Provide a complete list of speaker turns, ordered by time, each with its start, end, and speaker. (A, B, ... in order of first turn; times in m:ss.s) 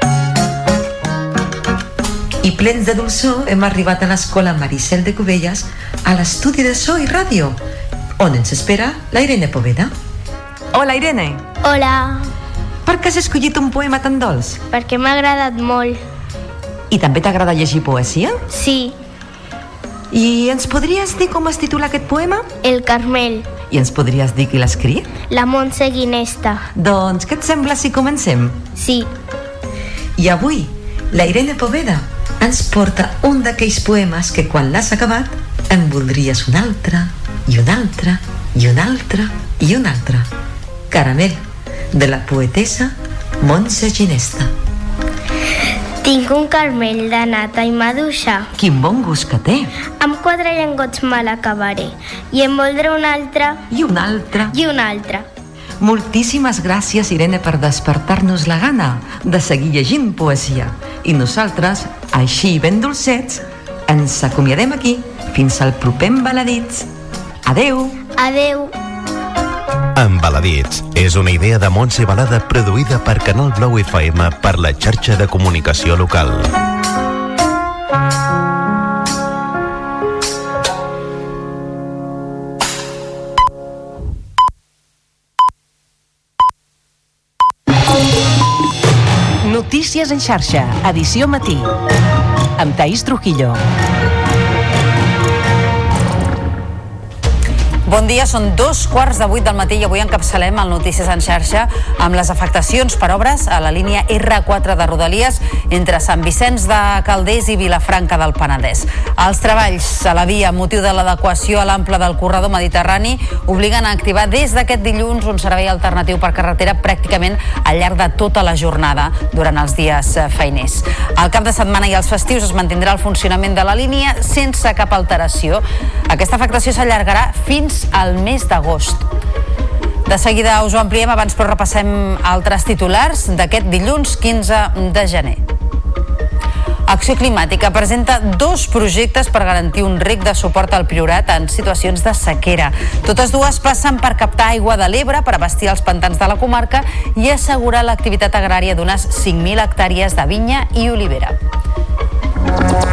0:02.4-0:07.6 A
0:08.2-0:09.9 A
0:10.7-0:11.4 A
0:11.6-0:12.3 B
0:12.9-0:14.6 A
0:14.7-0:16.0 B
0:16.9-0:18.4 A
0:18.5-0:19.0 B
0:20.1-0:22.5 A
0:22.6-0:23.5 B
0:23.7-0:25.1 A
0:25.3-0:26.6 B
0:26.8-0:28.6 A
0:28.8-0:29.1 B
0:30.2-0:32.0 A
0:34.2-0:35.2 A
0:38.6-0:40.2 A
0:40.9-0:41.3 A
0:41.9-0:42.8 A
0:43.9-0:44.3 A
0:46.0-0:48.5 B
0:48.6-0:49.7 A
0:50.0-0:53.6 B
0:53.7-0:54.5 A
0:54.5-0:55.3 B
0:55.8-1:06.9 A
1:07.5-1:07.9 A
1:08.2-1:08.7 B
1:10.0-1:16.4 C
1:29.4-1:31.8 D
1:32.6-1:33.6 D
1:37.9-2:09.1 E
2:10.1-2:15.4 E
2:16.9-2:31.4 E